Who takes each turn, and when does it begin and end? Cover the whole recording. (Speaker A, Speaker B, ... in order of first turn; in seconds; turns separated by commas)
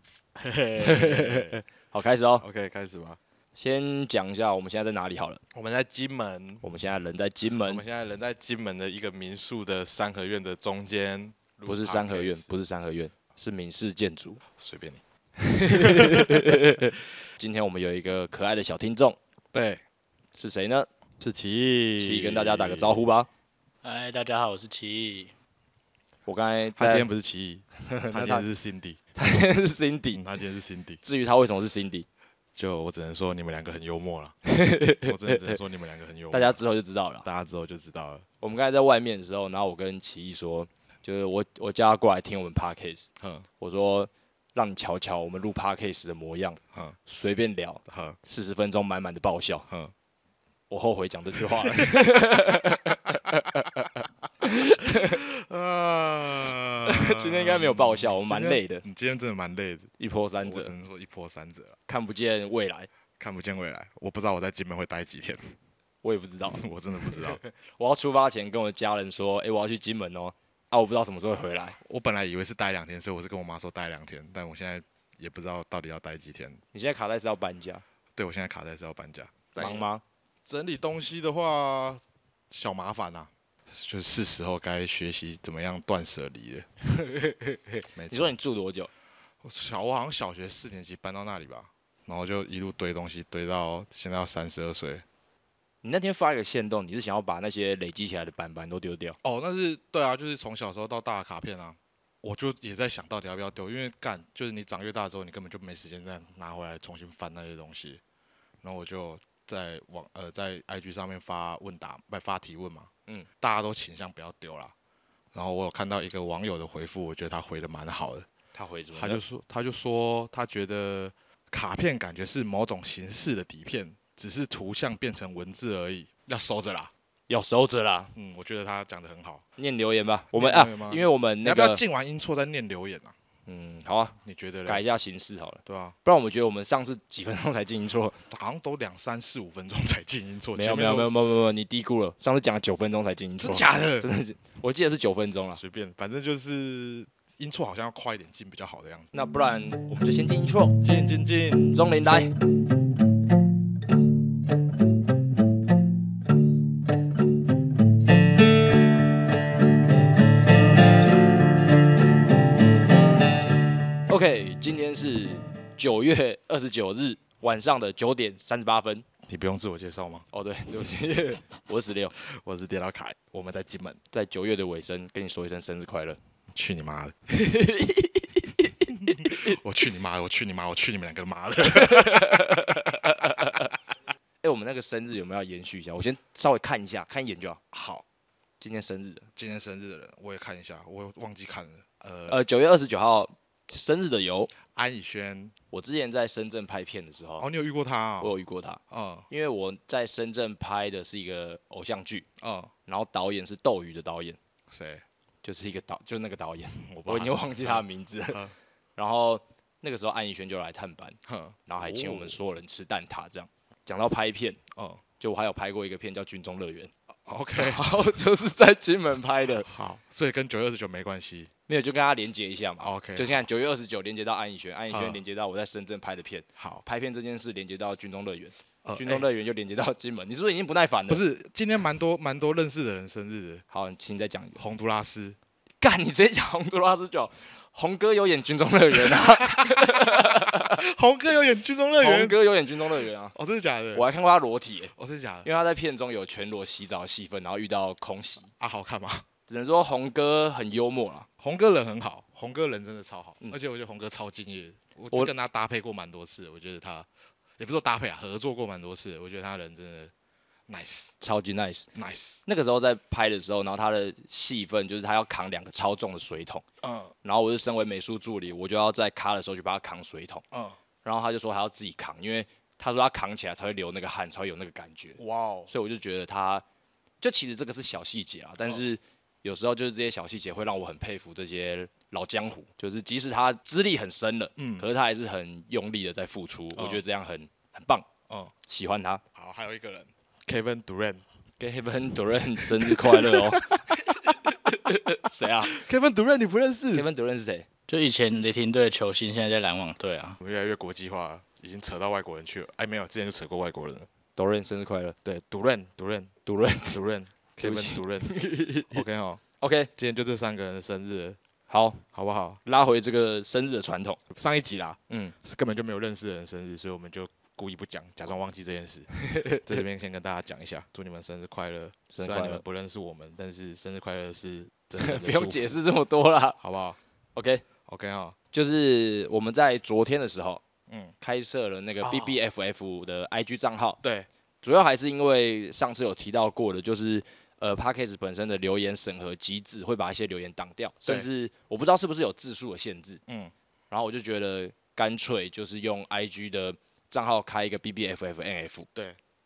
Speaker A: 0.3-1.6, Speaker B: 0.8-2.4, Speaker A: 2.4-3.2, Speaker B: 3.5-5.4, Speaker A: 5.5-6.6, Speaker B: 6.6-7.8, Speaker A: 7.6-12.5, Speaker B: 11.7-14.4, Speaker A: 14.6-15.0, Speaker B: 15.4-19.2, Speaker A: 15.7-16.6, Speaker A: 19.5-19.8, Speaker B: 20.4-20.9, Speaker A: 21.2-23.0, Speaker B: 22.0-23.3, Speaker C: 23.8-25.3, Speaker B: 26.2-27.1, Speaker A: 26.8-29.0, Speaker B: 27.8-28.4, Speaker B: 29.1-30.2, Speaker A: 30.1-31.0, Speaker B: 31.0-32.1, Speaker A: 32.5-34.4, Speaker B: 34.5-35.6, Speaker A: 35.0-36.6, Speaker B: 36.3-37.2, Speaker A: 37.2-38.2, Speaker B: 38.4-49.6, Speaker A: 43.2-43.5, Speaker A: 47.9-48.2, Speaker A: 49.7-49.9, Speaker B: 50.7-55.2, Speaker A: 51.5-52.0, Speaker A: 54.8-59.9, Speaker B: 56.8-58.8, Speaker B: 60.0-60.7, Speaker A: 60.4-61.8, Speaker B: 61.9-62.9, Speaker A: 63.2-65.5, Speaker B: 66.0-66.6, Speaker A: 66.5-67.4, Speaker B: 67.1-71.8, Speaker A: 71.8-76.6, Speaker B: 76.7-77.8, Speaker A: 78.2-79.8, Speaker B: 79.5-80.0, Speaker A: 80.5-86.7, Speaker B: 86.8-88.9, Speaker A: 87.9-88.3, Speaker A: 89.4-95.0, Speaker B: 95.8-99.2, Speaker A: 99.2-108.0, Speaker A: 108.6-112.9, Speaker A: 113.4-114.7, Speaker A: 115.3-118.3, Speaker B: 118.5-119.2, Speaker A: 118.9-126.9, Speaker B: 127.3-128.1, Speaker A: 128.1-129.4, Speaker B: 129.6-131.8, Speaker A: 130.3-133.1, Speaker B: 133.4-134.1, Speaker A: 134.2-134.8, Speaker B: 134.7-138.2, Speaker A: 135.7-135.9, Speaker A: 138.3-141.1, Speaker B: 140.5-145.6, Speaker A: 143.4-144.1, Speaker A: 145.5-149.1, Speaker B: 149.1-150.8, Speaker A: 150.8-151.8, Speaker B: 151.7-152.3, Speaker B: 164.1-169.1, Speaker A: 169.3-170.2, Speaker B: 170.3-172.1, Speaker A: 172.3-174.0, Speaker B: 174.1-176.2, Speaker A: 176.5-177.1, Speaker B: 177.3-179.6, Speaker A: 179.0-183.6, Speaker B: 181.6-183.7, Speaker B: 184.4-187.6, Speaker A: 187.7-188.0, Speaker B: 188.6-189.3, Speaker A: 189.3-192.4, Speaker B: 192.3-194.5, Speaker A: 194.6-195.5, Speaker B: 195.7-197.5, Speaker A: 197.4-198.3, Speaker B: 198.2-202.2, Speaker A: 198.9-199.3, Speaker A: 202.4-202.7, Speaker B: 202.9-204.4, Speaker A: 204.7-205.0, Speaker B: 205.4-208.4, Speaker A: 206.9-208.5, Speaker B: 208.9-214.6, Speaker A: 211.2-212.4, Speaker A: 214.7-215.0, Speaker B: 215.2-216.9, Speaker A: 217.2-217.9, Speaker B: 217.6-219.7, Speaker A: 219.7-221.5, Speaker B: 221.7-231.2, Speaker A: 222.8-223.4, Speaker A: 224.9-225.2, Speaker A: 226.6-226.8, Speaker A: 228.8-229.3, Speaker A: 231.1-233.6, Speaker B: 233.7-234.6, Speaker A: 234.6-235.4, Speaker B: 235.8-240.8, Speaker A: 239.0-242.4, Speaker B: 242.0-243.3, Speaker A: 243.3-244.0, Speaker B: 243.9-244.9, Speaker A: 244.9-245.5, Speaker B: 245.4-248.5, Speaker A: 248.6-249.2, Speaker B: 249.5-251.3, Speaker A: 251.4-257.1, Speaker A: 257.6-260.1, Speaker A: 260.7-261.1, Speaker B: 261.2-261.9, Speaker A: 261.9-262.4, Speaker B: 262.4-266.6, Speaker A: 266.8-267.1, Speaker B: 267.2-270.4, Speaker A: 270.5-270.8, Speaker B: 271.0-276.6, Speaker A: 275.2-275.7, Speaker B: 277.2-288.1, Speaker A: 284.6-284.9, Speaker A: 286.7-287.0, Speaker A: 288.3-288.5, Speaker B: 288.7-289.2, Speaker A: 289.3-291.2, Speaker B: 291.6-295.7, Speaker A: 292.6-294.1, Speaker A: 295.7-297.1, Speaker B: 296.9-297.7, Speaker C: 297.9-300.4, Speaker A: 300.4-304.1, Speaker B: 304.4-305.1, Speaker A: 305.2-306.3, Speaker B: 306.4-307.0, Speaker A: 306.9-308.3, Speaker B: 307.6-309.0, Speaker A: 308.9-309.4, Speaker B: 309.6-309.9, Speaker A: 309.9-311.4, Speaker B: 311.7-312.0, Speaker A: 312.1-312.6, Speaker B: 312.6-314.2, Speaker A: 314.3-325.7, Speaker B: 315.1-315.3, Speaker B: 319.2-319.6, Speaker B: 322.1-322.6, Speaker B: 325.0-326.6, Speaker A: 326.6-327.0, Speaker B: 327.3-327.6, Speaker A: 327.9-328.4, Speaker B: 328.5-330.6, Speaker A: 330.9-331.1, Speaker B: 331.2-334.0, Speaker A: 332.0-332.4, Speaker A: 334.0-334.3, Speaker B: 334.6-343.2, Speaker A: 343.3-343.5, Speaker B: 343.9-348.9, Speaker A: 348.9-349.2